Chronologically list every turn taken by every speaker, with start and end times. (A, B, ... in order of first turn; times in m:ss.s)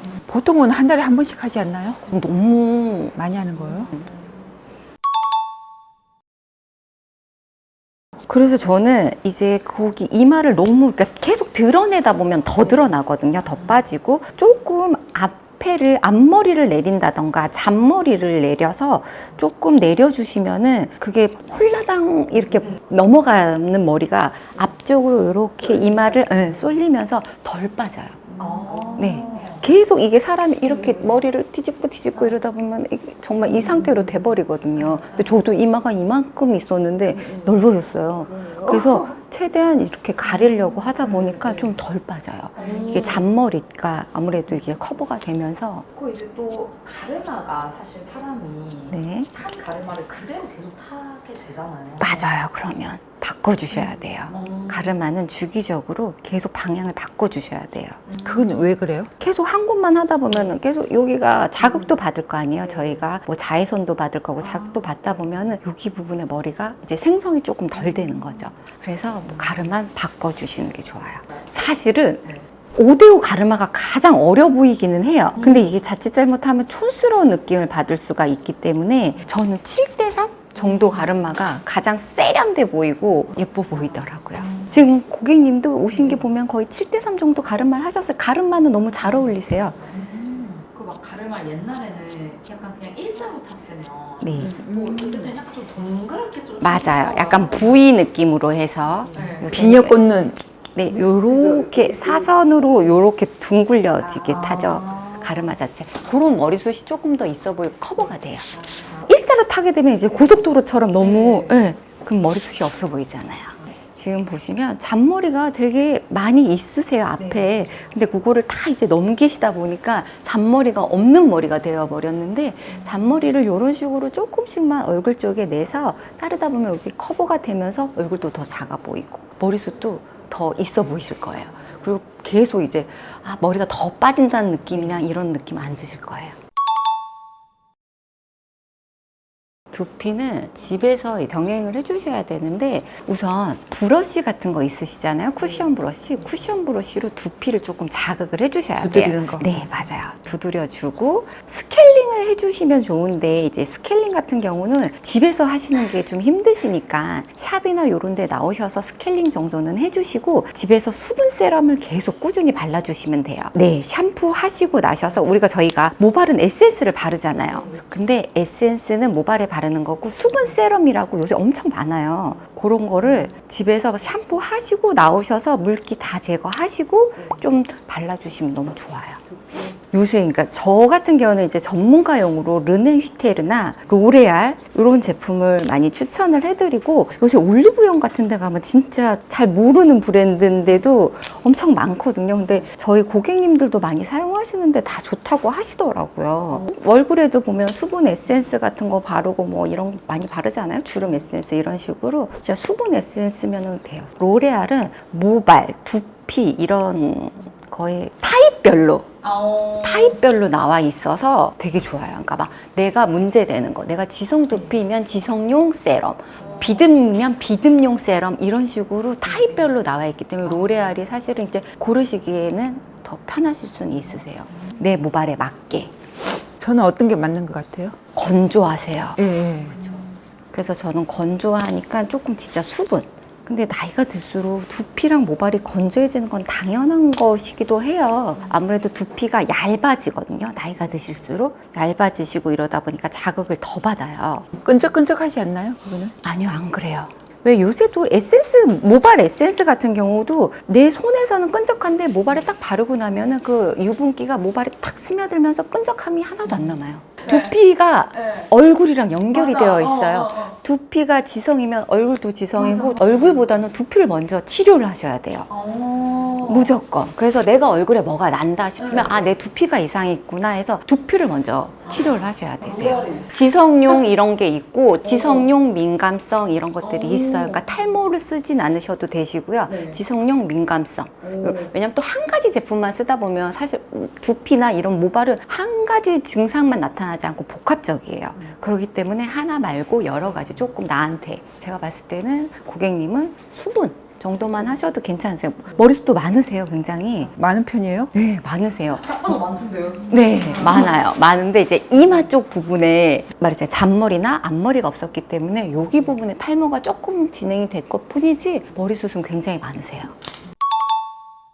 0:00.3-0:02.0 A
0:02.0-0:03.2 B
0:03.2-0:04.0 A
0:08.3-0:28.3 B
0:28.4-0:29.6 C
0:29.0-0:45.8 B
0:38.3-0:39.1 C
0:42.6-0:43.3 C
0:45.9-0:52.3 C
0:48.9-0:49.3 B
0:52.0-0:58.0 B
0:54.3-0:55.0 C
0:58.1-0:58.8 C
0:58.2-0:59.1 A
0:59.2-1:29.8 B
1:29.8-1:37.8 C
1:34.2-1:34.6 B
1:34.4-1:35.3 A
1:36.6-1:40.0 B
1:39.1-1:39.6 C
1:39.4-1:40.4 A
1:40.7-2:16.4 B
1:44.1-1:45.5 C
1:51.1-1:51.6 C
2:19.7-3:29.1 B
2:28.8-2:29.6 A
2:47.5-2:47.8 C
3:29.2-3:30.2 C
3:29.8-3:45.9 B
3:46.6-3:48.0 A
3:48.2-3:49.2 B
3:49.2-3:49.8 A
3:50.5-4:04.5 B
4:04.6-4:06.1 A
4:06.2-4:25.5 B
4:17.3-4:17.5 C
4:18.1-4:18.5 C
4:19.3-4:20.6 C
4:22.6-4:23.5 C
4:25.5-4:26.8 C
4:26.4-4:57.3 B
4:28.8-4:29.3 C
4:32.6-4:33.3 C
4:35.2-4:35.5 C
4:37.0-4:37.6 C
4:39.7-4:40.0 C
4:41.2-4:41.7 C
4:57.4-4:58.1 A
4:58.1-4:59.4 B
4:59.0-5:00.9 C
5:00.1-5:10.1 B